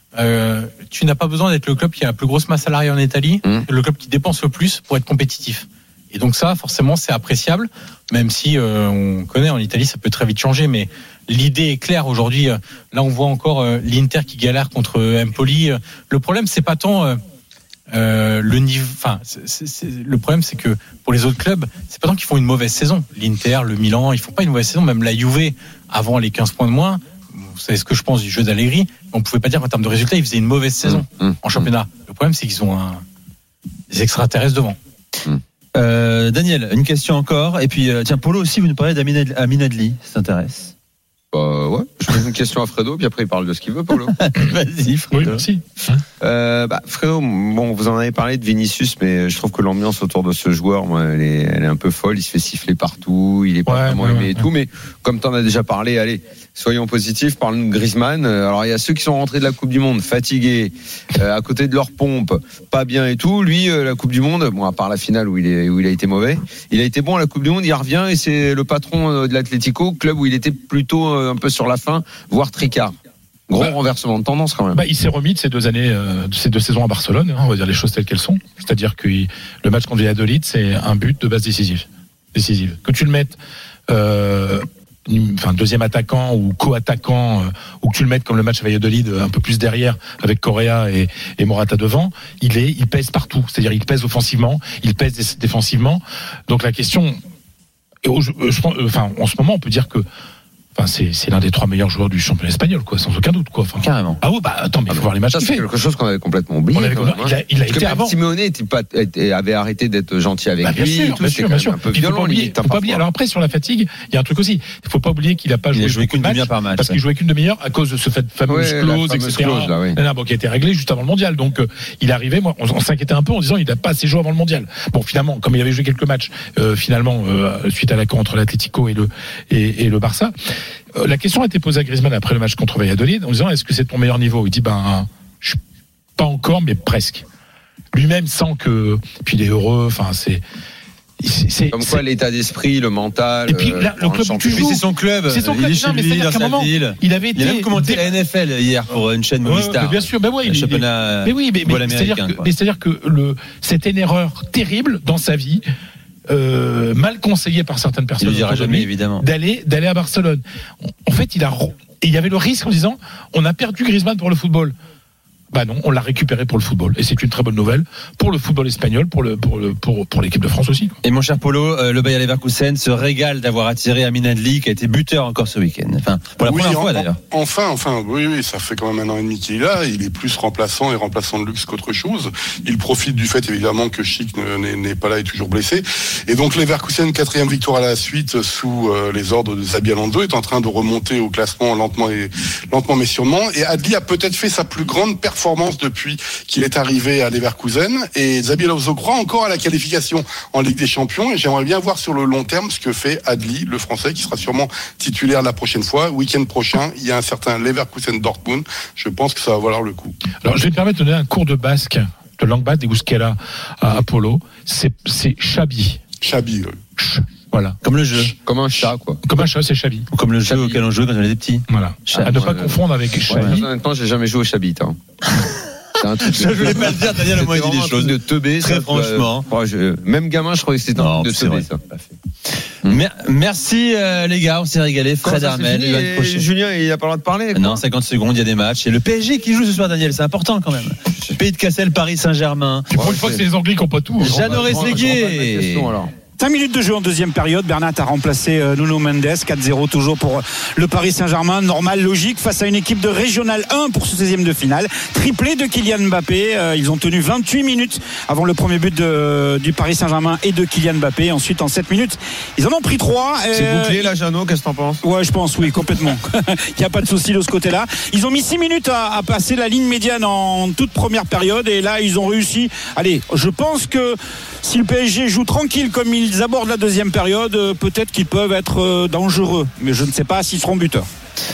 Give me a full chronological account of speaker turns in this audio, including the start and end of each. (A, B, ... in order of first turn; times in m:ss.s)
0:00.2-0:17.2 A
0:17.9-0:33.0 A
0:30.8-0:31.7 B
0:33.9-0:34.8 A
0:35.7-0:40.7 C
0:41.3-0:44.1 B
0:44.1-0:45.5 C
0:45.1-0:45.6 D
0:46.2-1:13.0 B
0:53.6-0:54.5 D
1:13.5-1:14.8 B
1:14.7-1:23.4 D
1:23.9-1:37.2 D
1:38.0-1:40.0 D
1:40.7-1:45.6 D
1:43.8-1:44.2 C
1:44.9-1:53.0 B
1:46.7-1:48.2 D
1:50.6-2:10.3 D
1:55.7-1:57.0 C
1:58.5-2:00.0 B
2:10.9-2:15.6 D
2:16.2-2:17.2 D
2:17.9-2:20.4 D
2:21.2-2:22.0 D
2:21.7-2:24.8 B
2:23.5-2:28.0 D
2:24.4-2:32.5 C
2:29.4-2:35.6 D
2:36.3-2:44.8 D
2:38.2-2:39.2 C
2:45.5-2:51.0 D
2:51.0-2:57.2 C
2:56.4-3:30.2 E
3:30.4-3:36.0 D
3:36.2-3:36.8 E
3:37.0-3:40.1 D
3:37.8-3:38.3 C
3:38.4-3:39.2 B
3:40.1-3:42.7 C
3:40.5-3:40.8 B
3:41.7-3:43.6 D
3:42.2-3:45.0 B
3:43.3-3:43.6 C
3:45.3-3:49.5 C
3:46.0-3:52.1 B
3:50.9-3:51.7 C
3:52.8-3:56.5 C
3:55.2-3:57.8 B
3:57.5-4:02.9 C
4:02.9-4:05.1 D
4:02.9-4:03.4 B
4:04.2-4:06.1 B
4:04.2-4:06.0 C
4:06.4-4:24.1 F
4:23.5-4:25.0 B
4:25.0-4:41.1 F